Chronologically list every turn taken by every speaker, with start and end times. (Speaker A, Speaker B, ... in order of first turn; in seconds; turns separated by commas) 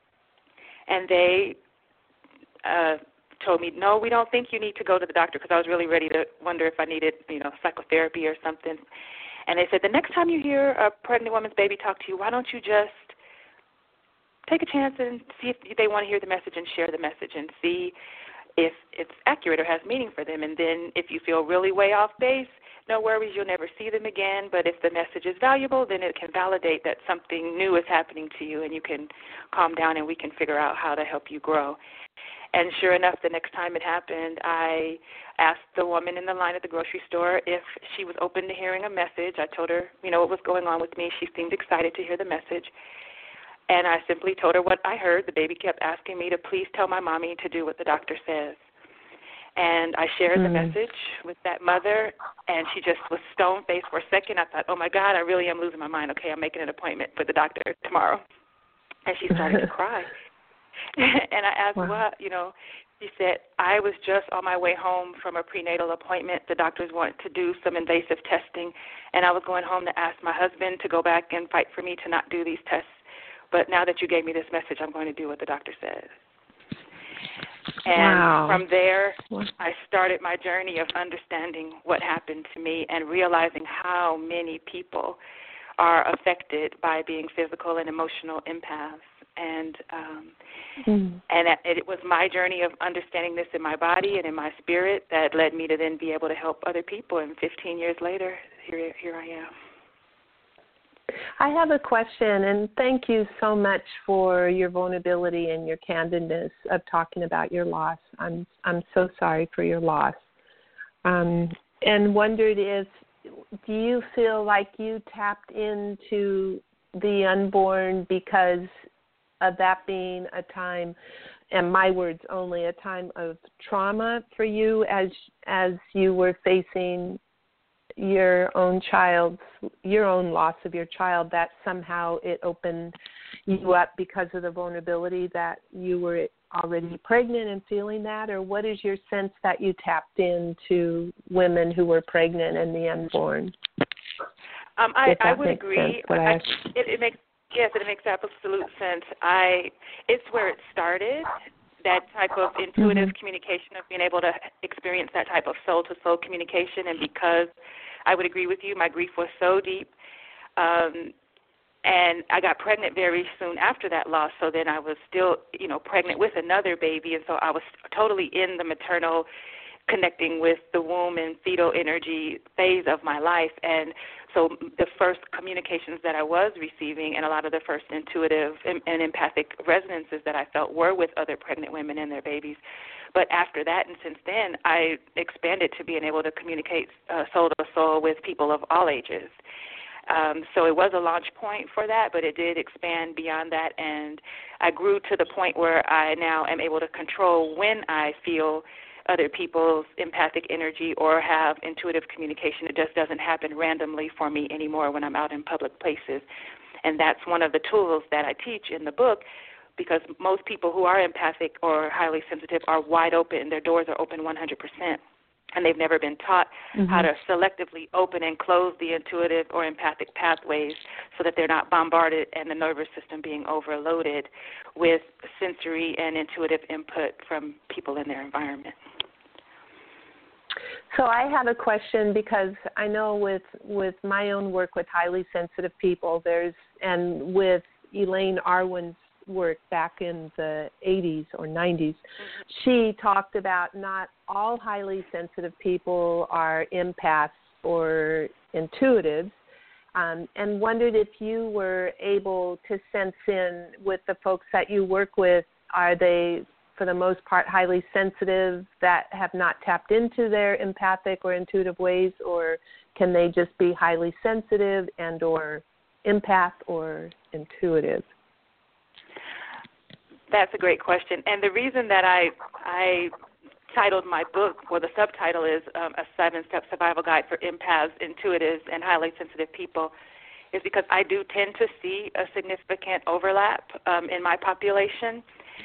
Speaker A: 0.9-1.6, Speaker A: 2.6-8.8, Speaker A: 9.5-13.2, Speaker A: 14.5-17.9, Speaker A: 18.6-31.8, Speaker A: 32.5-42.7, Speaker A: 43.7-48.6, Speaker A: 49.5-58.2, Speaker B: 50.4-50.7, Speaker A: 59.0-60.1, Speaker A: 60.9-73.0, Speaker A: 73.5-76.1, Speaker A: 77.8-85.2, Speaker B: 77.9-78.6, Speaker A: 85.8-90.3, Speaker B: 90.8-91.2, Speaker A: 91.3-99.5, Speaker B: 101.4-110.2, Speaker B: 111.0-118.7, Speaker B: 119.4-120.9, Speaker B: 121.5-127.2, Speaker B: 128.0-132.9, Speaker B: 133.4-143.5, Speaker A: 144.8-151.3, Speaker B: 145.1-146.5, Speaker A: 151.8-157.5, Speaker B: 152.8-153.1, Speaker A: 158.1-159.9, Speaker A: 160.6-161.1, Speaker A: 161.8-169.3, Speaker A: 169.9-182.6, Speaker A: 183.1-189.3, Speaker A: 190.1-206.2, Speaker A: 206.8-209.2, Speaker A: 209.8-215.0, Speaker A: 215.5-228.7, Speaker B: 216.8-217.1, Speaker B: 230.9-249.3, Speaker B: 249.9-268.1, Speaker A: 270.3-273.1, Speaker A: 273.7-279.9, Speaker A: 280.5-285.2